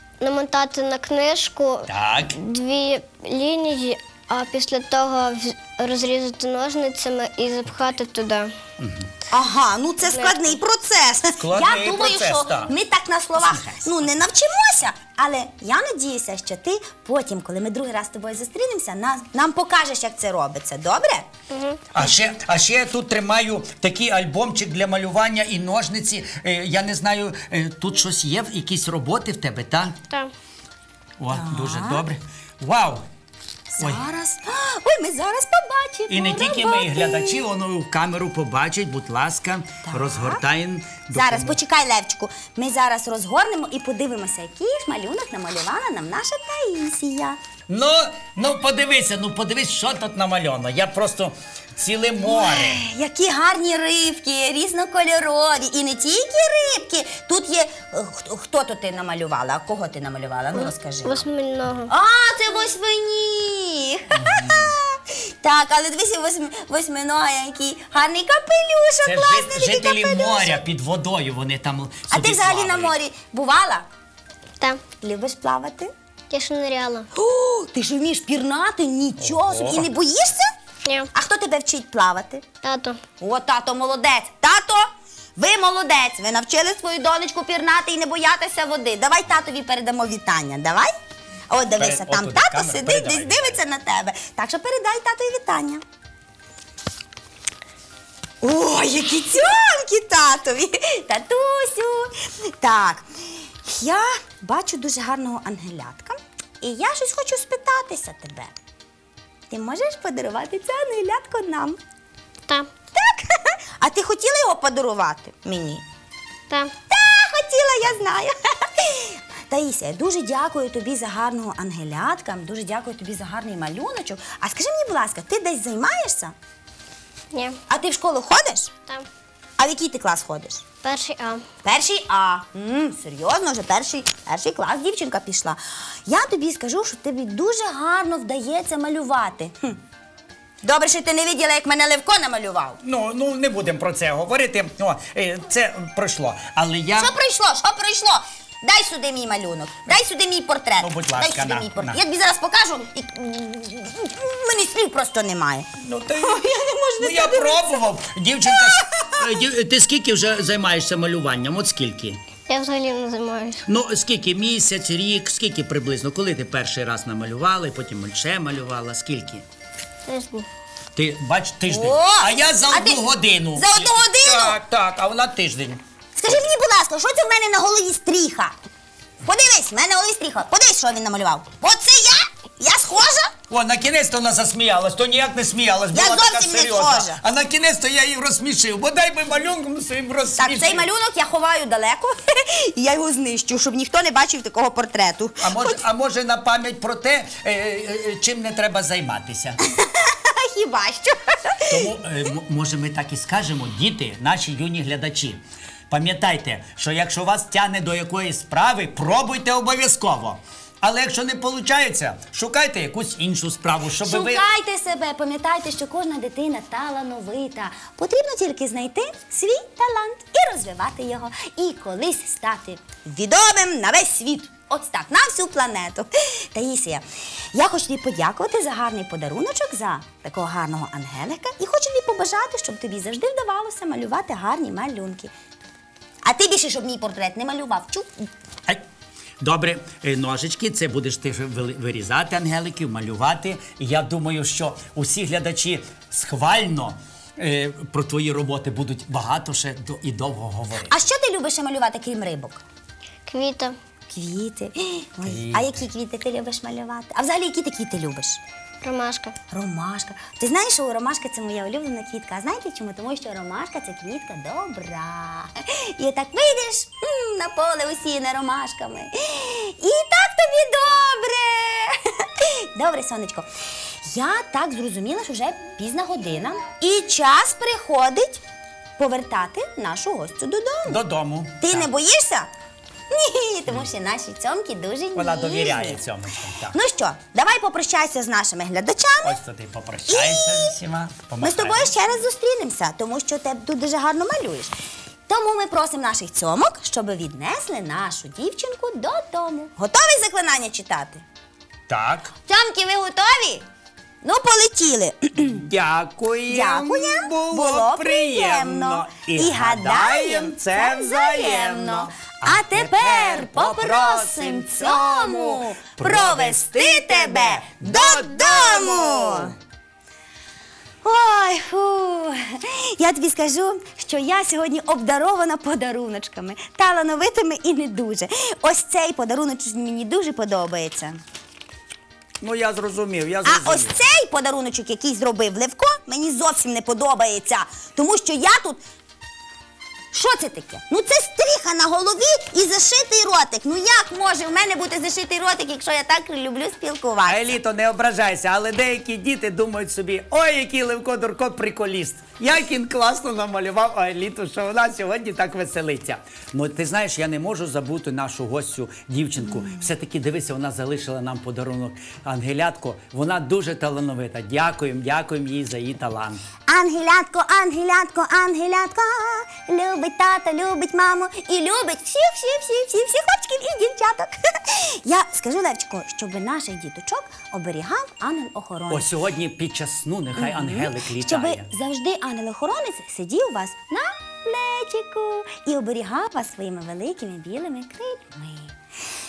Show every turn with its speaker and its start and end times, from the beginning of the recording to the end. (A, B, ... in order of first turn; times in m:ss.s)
0:00.2-0:08.5 A
0:01.9-0:02.4 B
0:08.8-0:09.1 B
0:09.3-0:21.3 C
0:10.0-0:10.6 A
0:11.4-0:12.7 B
0:13.4-0:14.0 B
0:21.5-0:21.8 A
0:21.9-0:30.0 B
0:31.2-0:33.0 B
0:31.3-0:32.0 C
0:33.7-0:37.4 C
0:36.1-0:41.6 B
0:39.8-0:40.4 C
0:41.1-0:47.4 C
0:47.7-0:52.8 B
0:52.2-1:01.2 C
1:00.5-1:01.9 A
1:01.9-1:10.7 C
1:04.1-1:04.7 B
1:09.0-1:12.9 B
1:12.1-1:13.9 C
1:15.0-1:15.9 C
1:16.3-1:17.1 A
1:17.1-1:20.5 C
1:19.2-1:19.9 B
1:21.1-1:22.4 C
1:22.6-1:23.0 A
1:23.2-1:30.9 C
1:31.5-1:35.8 C
1:31.7-1:33.6 B
1:38.4-1:48.5 C
1:49.5-1:51.8 C
1:53.0-1:55.8 C
1:56.9-2:06.3 C
2:07.7-2:08.7 C
2:09.6-2:10.6 C
2:10.8-2:11.4 A
2:11.6-2:19.8 C
2:20.6-2:22.8 C
2:22.8-2:27.1 B
2:27.0-2:37.8 C
2:30.8-2:32.0 B
2:35.8-2:42.2 B
2:38.5-2:39.2 C
2:42.5-2:43.6 A
2:43.7-2:49.4 B
2:50.1-2:50.5 A
2:51.0-2:55.8 B
2:51.7-2:54.6 C
2:56.2-2:58.5 C
2:59.2-3:03.3 C
3:03.5-3:10.9 B
3:05.9-3:07.2 C
3:10.4-3:15.8 C
3:15.4-3:19.6 B
3:19.6-3:21.9 C
3:21.7-3:34.4 B
3:34.0-3:55.3 C
3:56.2-3:58.3 C
3:59.4-4:10.9 B
4:10.8-4:12.6 C
4:13.3-4:13.8 A
4:14.1-4:18.4 C
4:15.3-4:15.8 B
4:18.8-4:19.3 A
4:19.5-4:33.5 C
4:34.0-4:38.4 C
4:39.0-4:41.0 C
4:40.9-4:41.9 B
4:41.6-4:42.5 C
4:43.1-4:46.0 C
4:45.2-4:46.8 B
4:46.7-4:49.4 C
4:49.2-4:52.1 B
4:50.1-4:50.8 C
4:51.4-4:54.7 C
4:55.3-5:01.2 C
5:01.9-5:02.3 B
5:02.5-5:03.7 C
5:04.2-5:05.7 C
5:05.4-5:19.6 B
5:06.5-5:19.5 C
5:21.0-5:31.2 C
5:32.4-5:34.0 B
5:33.4-5:38.8 C
5:40.1-5:47.4 C
5:47.3-6:06.4 B
6:06.7-6:19.1 C
6:18.9-6:21.7 B
6:20.4-6:28.8 C